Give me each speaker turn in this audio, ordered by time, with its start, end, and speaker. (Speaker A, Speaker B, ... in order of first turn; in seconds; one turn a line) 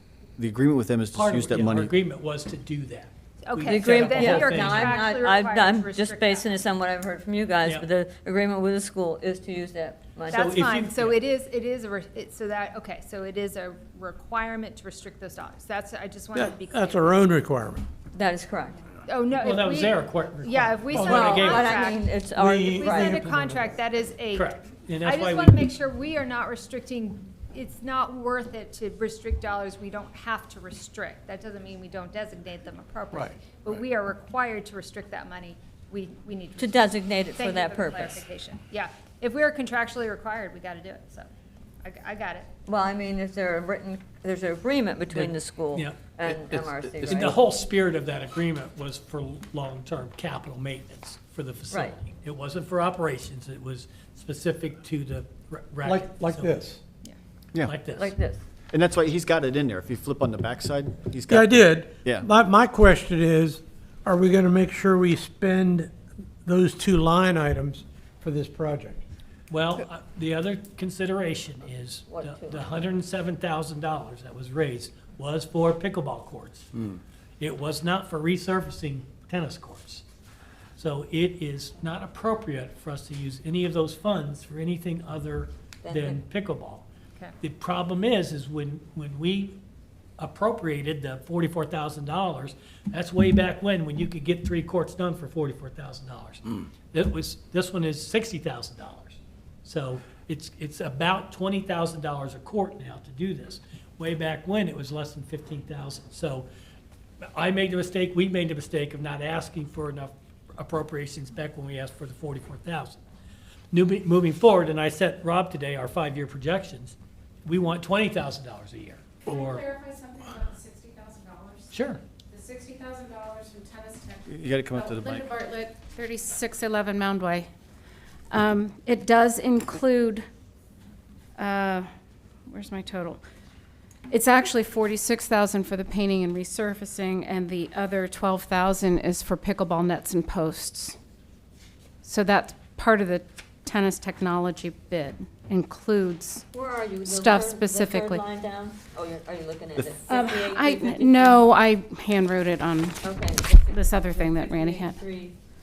Speaker A: 0.4-1.9
Speaker B: 1.1-5.0
Speaker C: 3.4-6.6
Speaker D: 3.6-10.4
Speaker C: 10.3-17.3
Speaker B: 10.3-11.2
Speaker E: 16.3-17.9
Speaker D: 18.1-18.8
Speaker C: 19.1-22.1
Speaker B: 19.3-21.7
Speaker E: 20.9-23.7
Speaker D: 21.0-23.2
Speaker C: 22.7-41.3
Speaker B: 24.3-25.6
Speaker D: 36.6-38.2
Speaker C: 41.8-42.5
Speaker D: 42.7-47.4
Speaker B: 45.1-56.7
Speaker D: 51.7-52.0
Speaker E: 55.8-56.8
Speaker B: 57.6-58.1
Speaker D: 57.9-58.4
Speaker A: 58.7-62.3
Speaker E: 61.3-65.9
Speaker E: 66.4-69.0
Speaker B: 69.5-76.7
Speaker D: 72.1-72.6
Speaker B: 77.4-80.0
Speaker B: 80.8-86.8
Speaker D: 85.8-86.2
Speaker B: 87.4-89.6
Speaker B: 90.2-106.5
Speaker B: 107.2-113.0
Speaker B: 113.7-117.0
Speaker B: 117.5-119.7
Speaker F: 119.2-121.8
Speaker B: 121.7-122.0
Speaker F: 122.3-127.5
Speaker A: 124.3-125.3
Speaker F: 128.3-130.2
Speaker F: 131.4-131.9
Speaker F: 132.5-133.2
Speaker F: 134.1-141.0
Speaker F: 142.0-146.4
Speaker D: 146.5-151.5
Speaker F: 147.1-148.2
Speaker F: 150.1-153.1
Speaker D: 153.0-155.4
Speaker F: 153.7-155.0